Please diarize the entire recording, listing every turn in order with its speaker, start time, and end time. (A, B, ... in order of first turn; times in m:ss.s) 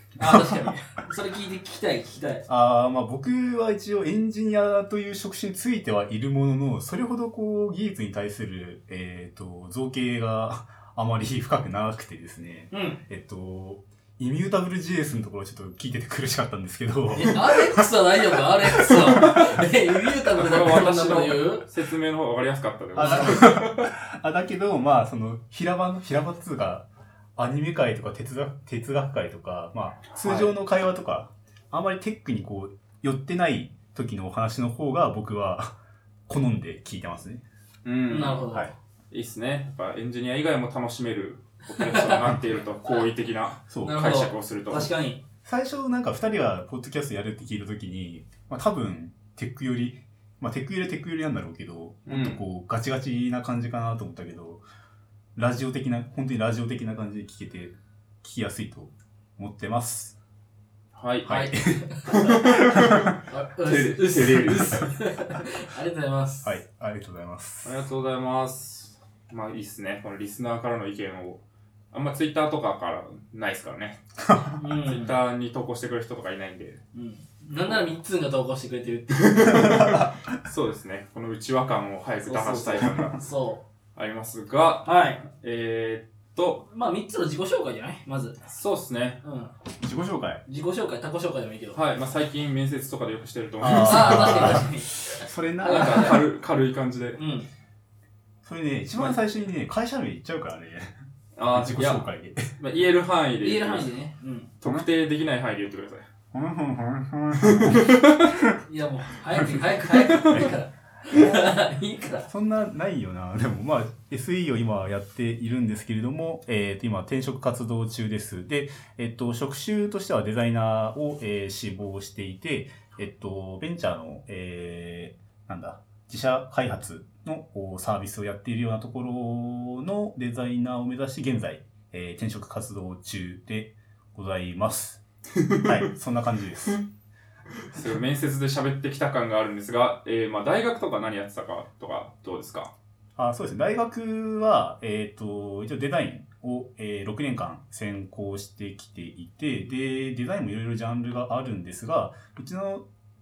0:00.2-0:02.4 A
0:00.2-0:00.6 B
0:02.5-0:17.9 B
0:12.7-0:13.0 A
0:17.1-0:21.6 A
0:18.8-0:19.6 B
0:20.3-0:23.9 C
0:23.0-0:23.4 A
0:23.0-0:35.8 B
0:30.2-0:30.5 A
0:36.3-0:37.4 B
0:37.8-0:38.5 C
0:38.1-0:38.7 A
0:39.1-0:44.9 C
0:41.7-0:42.2 A
0:43.7-0:44.0 B
0:43.8-0:45.2 A
0:45.4-0:54.6 B
0:52.0-0:52.4 C
0:55.4-1:00.2 B
1:01.0-1:01.5 C
1:01.2-1:01.9 B
1:01.3-1:02.5 A
1:02.1-1:04.9 C
1:02.8-1:03.1 B
1:03.2-1:06.5 A
1:04.3-1:04.9 B
1:06.4-1:07.8 B
1:07.6-1:14.0 C
1:14.2-1:14.6 B
1:14.6-1:15.2 A
1:14.8-1:16.8 C
1:16.9-1:19.9 A
1:19.2-1:23.2 C
1:19.6-1:20.1 B
1:22.2-1:23.6 A
1:24.0-1:26.7 C
1:24.8-1:25.2 A
1:26.7-1:28.4 A
1:28.5-1:29.2 C
1:29.2-1:29.5 A
1:29.8-1:30.4 B
1:30.5-1:31.8 A
1:31.7-1:34.6 C
1:33.6-1:36.2 B
1:33.8-1:36.2 A
1:35.7-1:37.2 C
1:37.2-1:37.5 A
1:38.4-1:40.9 B
1:41.4-1:43.9 C
1:41.5-1:42.5 B
1:43.4-1:44.5 A
1:44.6-1:46.1 C
1:46.3-1:48.6 B
1:47.4-1:48.3 C
1:48.6-1:52.3 A
1:52.3-2:15.0 B
2:15.4-2:15.9 C
2:15.6-2:16.8 B
2:17.7-2:22.7 C
2:23.2-2:32.8 B